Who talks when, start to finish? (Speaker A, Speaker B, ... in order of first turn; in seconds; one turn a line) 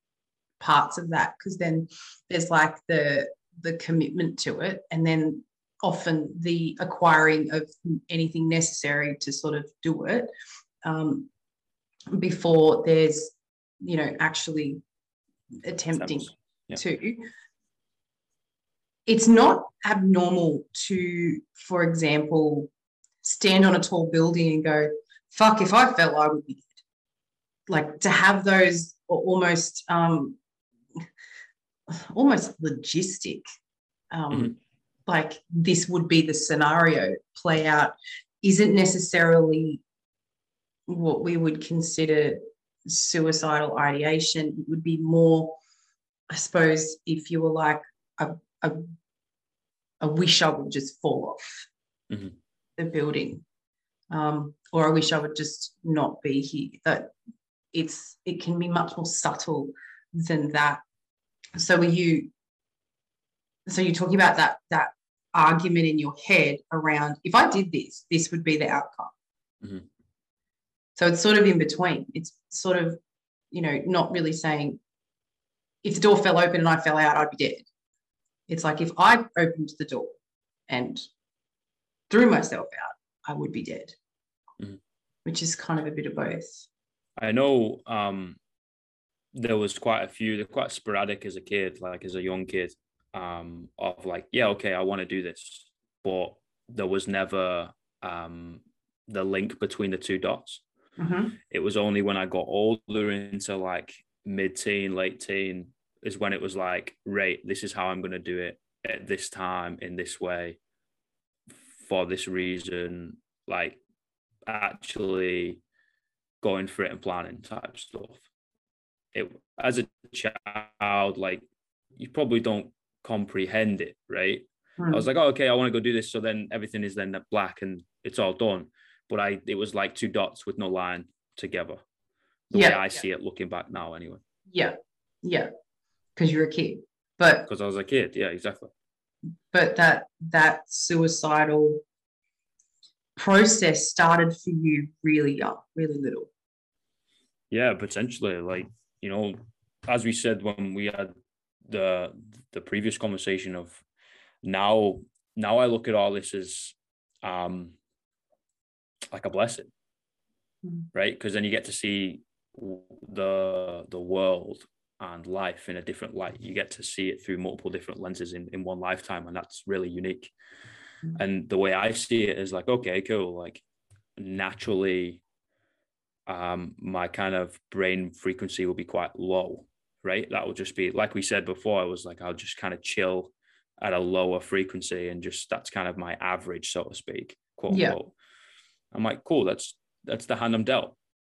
Speaker A: 0.6-10.3
Speaker A: 10.8-11.3
Speaker A: 12.1-14.8
Speaker A: 15.6-17.3
Speaker B: 15.9-16.8
Speaker A: 19.1-22.7
Speaker A: 23.2-26.8
Speaker A: 27.7-30.4
Speaker A: 31.9-33.4
Speaker A: 34.1-39.8
Speaker A: 40.9-45.6
Speaker A: 46.3-48.9
Speaker A: 50.0-51.7
Speaker B: 52.1-52.4
Speaker A: 52.8-53.4
Speaker A: 54.1-57.1
Speaker A: 57.7-60.8
Speaker A: 61.6-62.3
Speaker A: 63.7-69.1
Speaker A: 71.0-73.0
Speaker A: 73.5-74.8
Speaker A: 75.8-77.7
Speaker A: 78.5-80.2
Speaker A: 80.7-81.1
Speaker A: 82.1-84.0
Speaker A: 85.2-86.7
Speaker B: 87.2-88.4
Speaker B: 89.3-100.6
Speaker A: 101.0-101.4
Speaker B: 101.5-110.6
Speaker B: 111.7-113.8
Speaker B: 114.5-115.6
Speaker B: 116.4-118.2
Speaker B: 119.1-131.8
Speaker A: 124.8-125.1
Speaker B: 132.5-134.2
Speaker A: 132.5-132.8
Speaker A: 134.5-135.5
Speaker A: 136.2-137.5
Speaker B: 137.5-138.7
Speaker A: 139.5-141.8
Speaker A: 143.2-146.3
Speaker B: 147.5-151.1
Speaker B: 151.7-153.8
Speaker B: 154.4-157.8
Speaker B: 159.1-159.7
Speaker B: 160.9-170.3
Speaker B: 171.1-173.6
Speaker B: 174.2-175.2
Speaker B: 176.3-188.1
Speaker A: 187.7-188.0
Speaker B: 188.9-191.0